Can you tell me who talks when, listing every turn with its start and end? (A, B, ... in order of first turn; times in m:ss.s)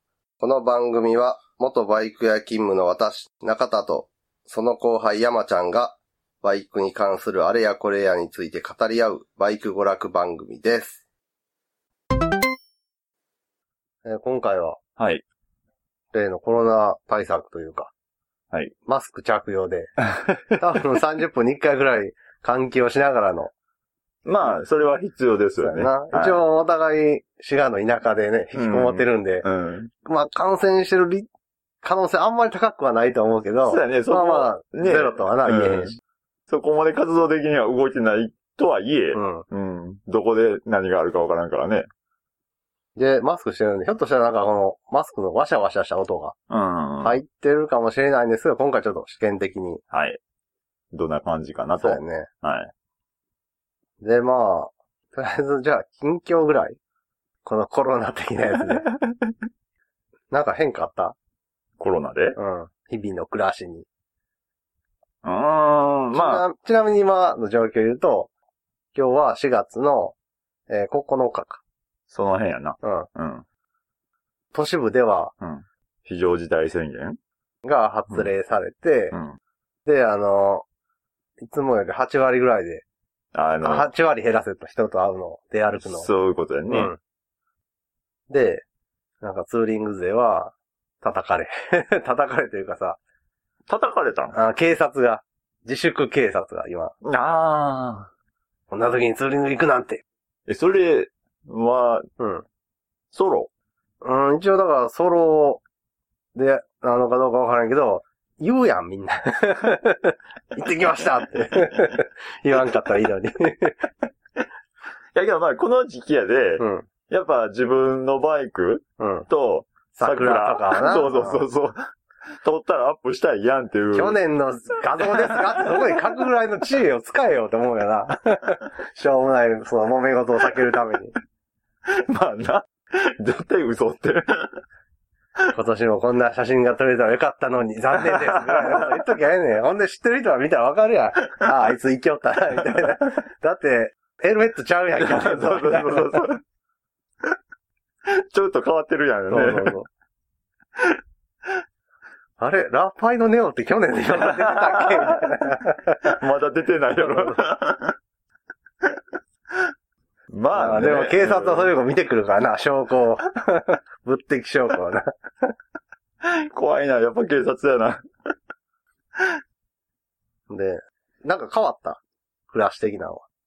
0:00.4-0:11.0 A
0:14.0-0:14.8 A
0:15.0-0:15.2 B
0:16.1-0:17.9 A
0:18.9-0:19.9 A
0:20.5-0:23.5 A
0:24.2-0:26.4 B
0:25.6-0:29.5 A
0:28.6-0:29.9 B
0:30.0-0:31.3 A
0:31.8-0:36.0 A
0:33.7-0:35.9 B
0:36.5-0:41.9 B
0:39.1-0:39.4 A
0:43.0-0:46.4 A
0:46.5-0:47.2 B
0:47.0-0:49.8 A
0:49.9-0:50.2 B
0:50.9-0:52.7 B
0:51.8-0:52.3 A
0:54.0-0:56.8 A
0:57.4-0:58.8 A
0:58.8-0:59.3 B
1:00.3-1:01.2 A
1:01.8-1:02.4 B
1:02.4-1:03.9 A
1:05.2-1:06.4 B
1:06.1-1:08.3 A
1:08.9-1:10.2 A
1:10.7-1:11.6 A
1:12.1-1:13.4 B
1:12.8-1:13.1 A
1:14.5-1:15.3 A
1:15.4-1:17.2 B
1:17.6-1:19.2 A
1:19.1-1:19.4 B
1:19.9-1:20.6 A
1:21.4-1:22.8 A
1:23.3-1:23.9 B
1:23.6-1:26.1 A
1:25.8-1:26.9 B
1:26.7-1:27.0 A
1:28.3-1:28.6 A
1:29.2-1:33.0 A
1:33.7-1:34.4 B
1:34.3-1:37.0 A
1:37.0-1:38.1 B
1:38.7-1:40.0 A
1:40.5-1:42.0 B
1:42.2-1:42.4 A
1:43.1-1:43.5 B
1:44.0-1:45.6 A
1:46.4-1:53.8 A
1:55.1-2:01.9 B
1:56.6-1:56.9 A
1:59.0-1:59.3 A
1:59.9-2:01.4 A
2:02.4-2:04.2 B
2:03.9-2:11.1 A
2:05.0-2:05.9 B
2:12.1-2:14.6 B
2:15.5-2:26.2 A
2:18.1-2:18.5 B
2:25.0-2:26.4 B
2:28.3-2:29.8 B
2:29.3-2:29.9 A
2:32.4-2:36.2 A
2:34.1-2:35.2 B
2:36.1-2:37.9 B
2:37.0-2:37.4 A
2:40.3-2:41.7 B
2:40.5-2:45.1 A
2:46.3-2:48.0 B
2:50.5-2:53.2 A